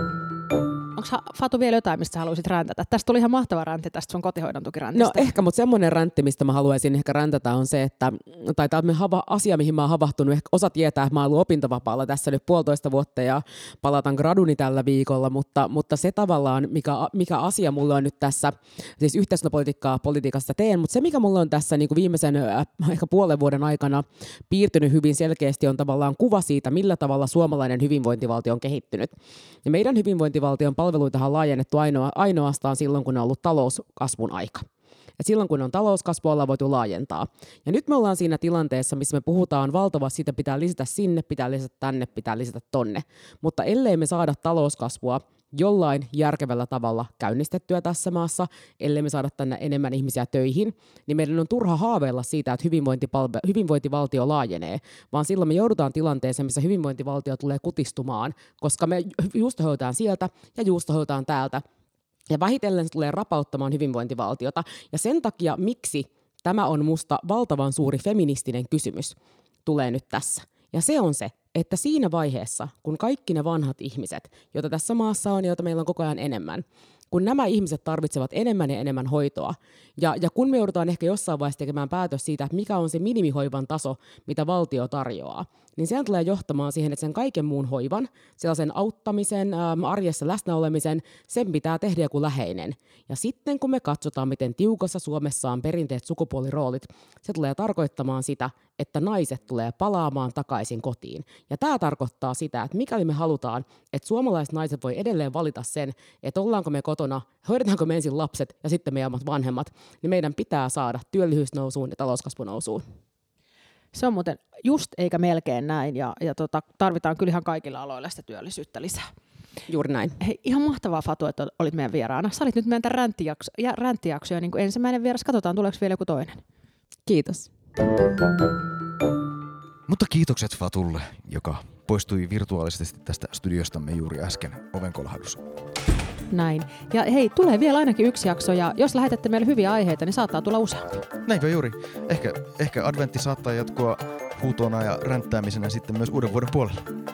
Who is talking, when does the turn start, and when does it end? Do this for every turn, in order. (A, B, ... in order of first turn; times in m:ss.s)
0:01.0-0:05.3 A
0:04.9-0:29.1 B
0:29.6-0:34.7 B
0:35.2-1:01.6 B
1:02.3-1:52.8 B
1:53.9-1:59.1 A
1:59.7-2:00.2 B
2:00.2-2:06.4 A
2:07.0-2:07.5 B
2:09.9-2:15.4 C
2:16.3-2:21.0 A
2:21.2-2:26.9 C